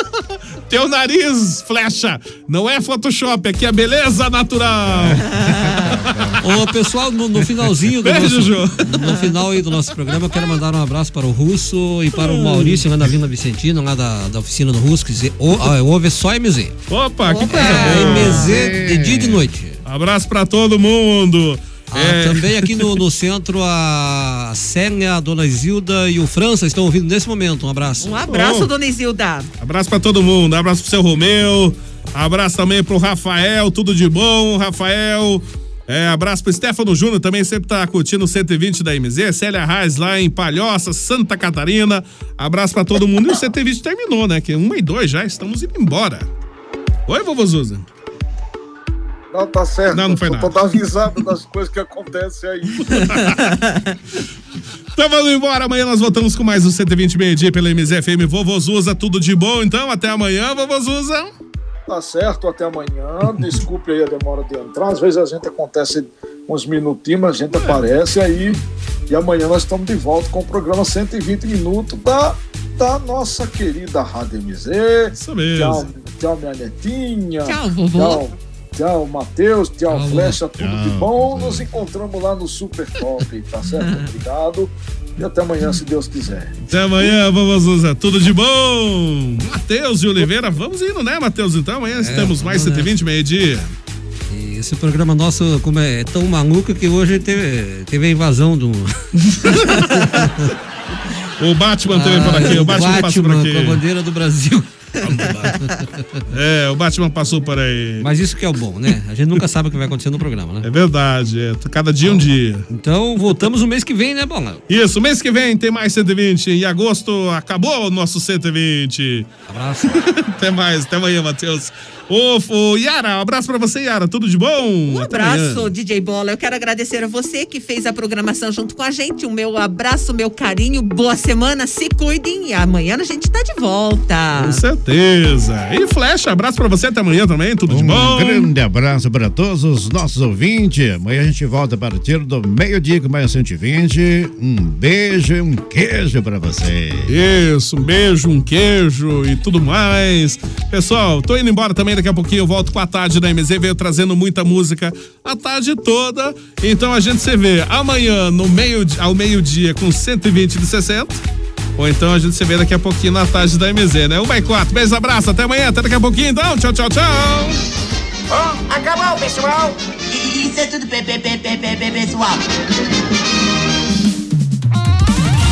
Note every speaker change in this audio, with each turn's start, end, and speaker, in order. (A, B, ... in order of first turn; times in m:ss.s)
0:00.7-0:05.3 A
0:04.8-0:06.4 B
0:05.4-0:05.8 C
0:06.4-0:16.8 D
0:07.9-0:08.9 A
0:12.2-0:12.9 A
0:16.9-0:18.5 A
0:17.3-0:18.5 C
0:17.5-0:19.8 D
0:18.2-0:19.5 B
0:19.8-0:22.9 A
0:21.9-0:28.2 D
0:28.0-0:29.5 C
0:28.3-0:28.7 A
0:29.6-0:46.3 A
0:47.1-0:47.9 A
0:49.3-0:52.8 E
0:49.9-0:50.6 A
0:52.8-0:53.5 A
0:55.0-1:01.3 A
1:01.9-1:26.5 E
1:07.5-1:07.8 A
1:15.2-1:15.9 A
1:17.4-1:18.3 C
1:19.9-1:20.4 D
1:20.6-1:21.7 B
1:23.8-1:24.1 C
1:26.7-1:33.7 A
1:31.9-1:32.9 D
1:34.3-1:40.5 D
1:39.2-1:39.9 A
1:41.4-1:43.8 A
1:41.9-1:44.7 D
1:45.1-1:45.5 A
1:45.6-1:46.2 D
1:46.3-1:48.1 A
1:48.0-1:50.7 D
1:50.6-1:52.7 A
1:52.0-1:54.6 D
1:54.7-1:59.3 A
1:59.5-2:00.1 D
1:59.9-2:05.7 A
2:04.9-2:14.6 C
2:14.4-2:18.5 A
2:17.7-2:27.1 B
2:27.1-2:41.2 A
2:41.8-2:47.6 A
2:48.3-2:52.4 F